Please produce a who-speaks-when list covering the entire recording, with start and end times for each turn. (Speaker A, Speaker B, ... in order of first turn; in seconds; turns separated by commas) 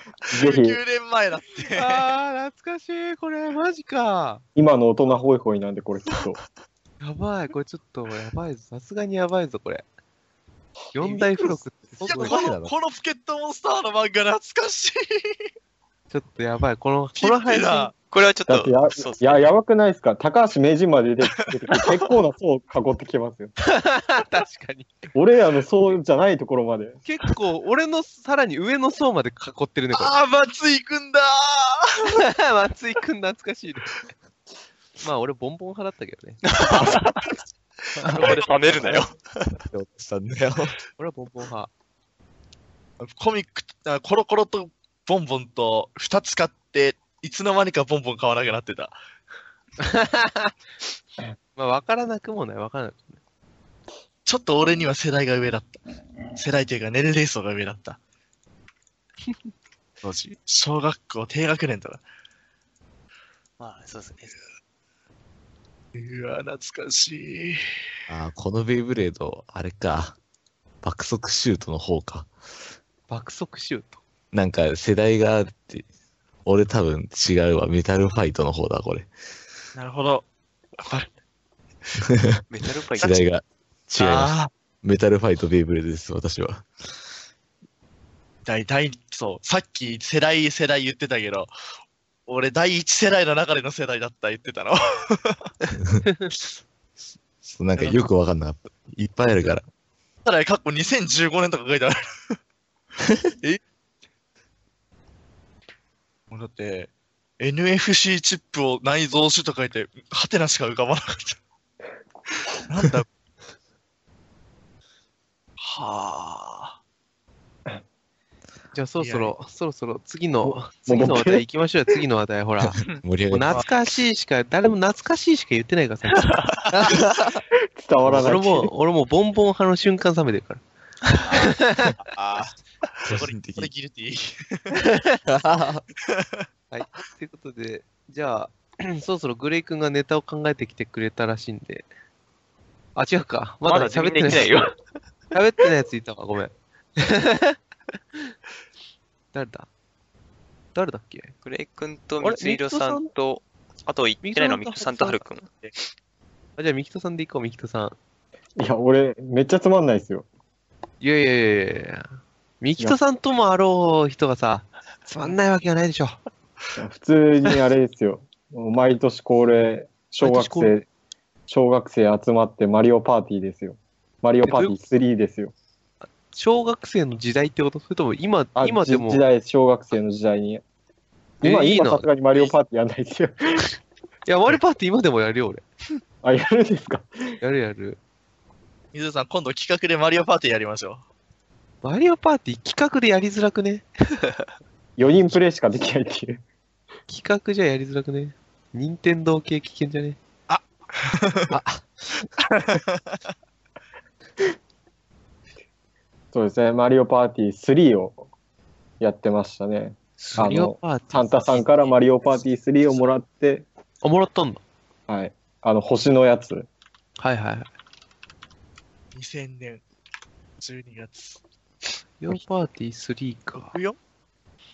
Speaker A: 0.3-2.1, Speaker B: 0.3-0.8, Speaker C: 1.7-4.4, Speaker B: 4.5-6.4, Speaker C: 7.0-9.8, Speaker C: 10.9-12.4, Speaker D: 11.0-11.3, Speaker D: 12.0-12.7, Speaker A: 12.0-15.3, Speaker C: 16.1-17.9, Speaker A: 17.1-17.9, Speaker E: 18.1-19.5, Speaker B: 18.5-23.5, Speaker C: 23.6-24.9, Speaker B: 25.1-27.0, Speaker C: 27.0-30.1, Speaker A: 29.9-32.2, Speaker C: 32.0-34.0, Speaker C: 35.0-36.9, Speaker E: 36.5-37.2, Speaker C: 38.0-39.0, Speaker E: 38.1-39.6, Speaker D: 39.7-40.8, Speaker C: 41.0-41.7, Speaker A: 43.0-49.0, Speaker C: 49.8-50.5, Speaker C: 51.5-53.2, Speaker A: 54.2-55.8, Speaker A: 56.4-58.0, Speaker A: 60.0-62.0, Speaker E: 63.6-64.4, Speaker A: 65.9-67.6, Speaker D: 68.1-70.2, Speaker D: 70.8-72.3, Speaker C: 73.1-74.0, Speaker D: 74.3-75.8, Speaker D: 76.4-79.1, Speaker A: 79.7-80.2, Speaker A: 80.8-81.1, Speaker E: 82.5-83.2, Speaker D: 83.0-86.7, Speaker A: 84.0-84.5, Speaker A: 88.4-91.5, Speaker A: 92.2-95.4, Speaker C: 96.0-96.3, Speaker D: 97.4-99.6, Speaker A: 97.8-98.0, Speaker A: 100.2-102.0, Speaker A: 106.3-111.4, Speaker A: 112.7-113.1, Speaker A: 115.6-116.8, Speaker C: 118.7-127.0, Speaker A: 119.0-119.3, Speaker B: 120.4-121.4, Speaker D: 122.9-123.6, Speaker D: 126.9-127.4, Speaker B: 127.8-128.7, Speaker C: 128.0-130.6, Speaker A: 131.2-134.8, Speaker C: 131.3-131.9, Speaker D: 133.0-133.7, Speaker C: 134.7-135.2, Speaker D: 135.3-135.8, Speaker A: 136.1-136.4, Speaker C: 136.7-141.9, Speaker C: 142.9-144.7, Speaker E: 143.6-144.8, Speaker C: 145.3-147.6, Speaker C: 149.3-149.7, Speaker C: 150.7-151.3, Speaker E: 151.4-155.7, Speaker C: 152.2-153.1, Speaker C: 154.2-155.2, Speaker C: 156.6-157.9, Speaker B: 158.6-160.2, Speaker C: 161.0-162.1, Speaker C: 162.6-166.2, Speaker B: 166.8-170.8, Speaker C: 170.2-170.7, Speaker B: 171.5-175.5, Speaker C: 174.4-174.8, Speaker C: 176.3-179.2, Speaker B: 178.6-180.6, Speaker B: 181.4-183.6, Speaker C: 181.4-182.1, Speaker C: 184.2-185.6, Speaker B: 186.2-187.1, Speaker C: 187.4-188.0, Speaker A: 188.9-191.0, Speaker C: 191.8-193.8, Speaker B: 195.0-196.4, Speaker C: 197.1-200.2, Speaker A: 200.5-201.5, Speaker D: 201.5-201.8, Speaker A: 202.4-203.2, Speaker B: 206.3-208.2, Speaker B: 209.0-213.6, Speaker C: 210.3-212.0, Speaker C: 214.0-214.6, Speaker B: 215.1-216.7, Speaker C: 217.2-217.7, Speaker A: 219.1-219.8, Speaker A: 220.6-221.4, Speaker C: 222.2-223.8, Speaker A: 223.5-224.0